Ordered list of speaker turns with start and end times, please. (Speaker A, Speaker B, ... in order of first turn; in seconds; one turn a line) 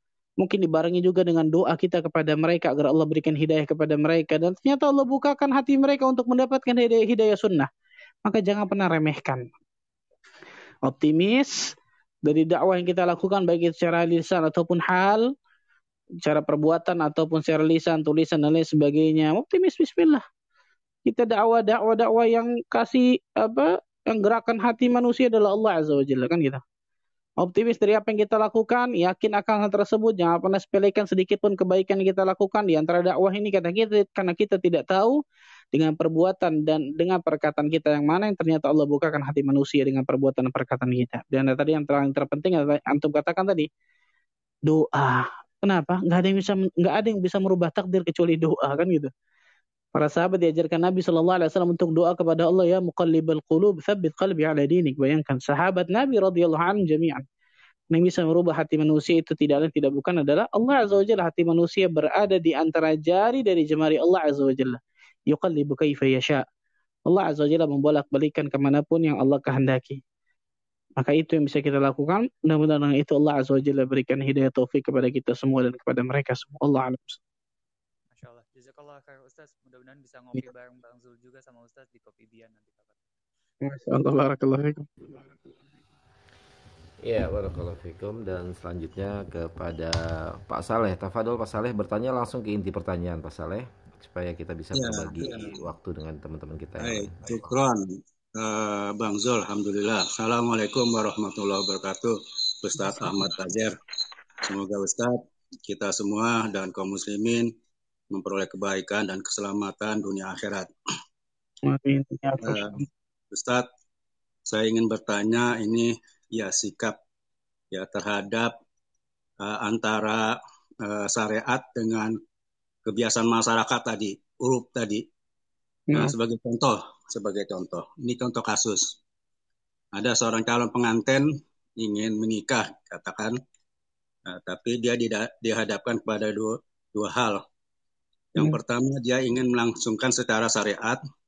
Speaker A: 0.4-7.7
Speaker A: 8.2-9.5
Speaker A: 10.9-11.6
Speaker A: 12.2-15.3
Speaker A: 16.2-20.2
Speaker A: 21.1-26.6
Speaker A: 27.4-35.2
Speaker A: 35.7-43.7
Speaker A: 44.7-49.1
Speaker A: 50.0-57.2
Speaker A: 57.9-66.4
Speaker A: 67.1-70.0
Speaker A: 71.0-77.2
Speaker B: 78.1-83.0
Speaker A: 83.6-85.2
Speaker C: 87.0-97.5
Speaker D: 94.8-95.6
Speaker D: 96.8-103.8
Speaker D: 104.4-107.5
Speaker D: 108.1-110.7
Speaker A: 111.7-112.8
Speaker D: 112.4-112.7
Speaker D: 113.3-113.7
Speaker D: 114.5-117.0
Speaker D: 117.7-118.5
Speaker D: 119.4-122.2
Speaker D: 122.8-125.0
Speaker D: 125.9-129.0
Speaker D: 129.9-133.4
Speaker D: 134.3-137.4
Speaker D: 138.3-141.0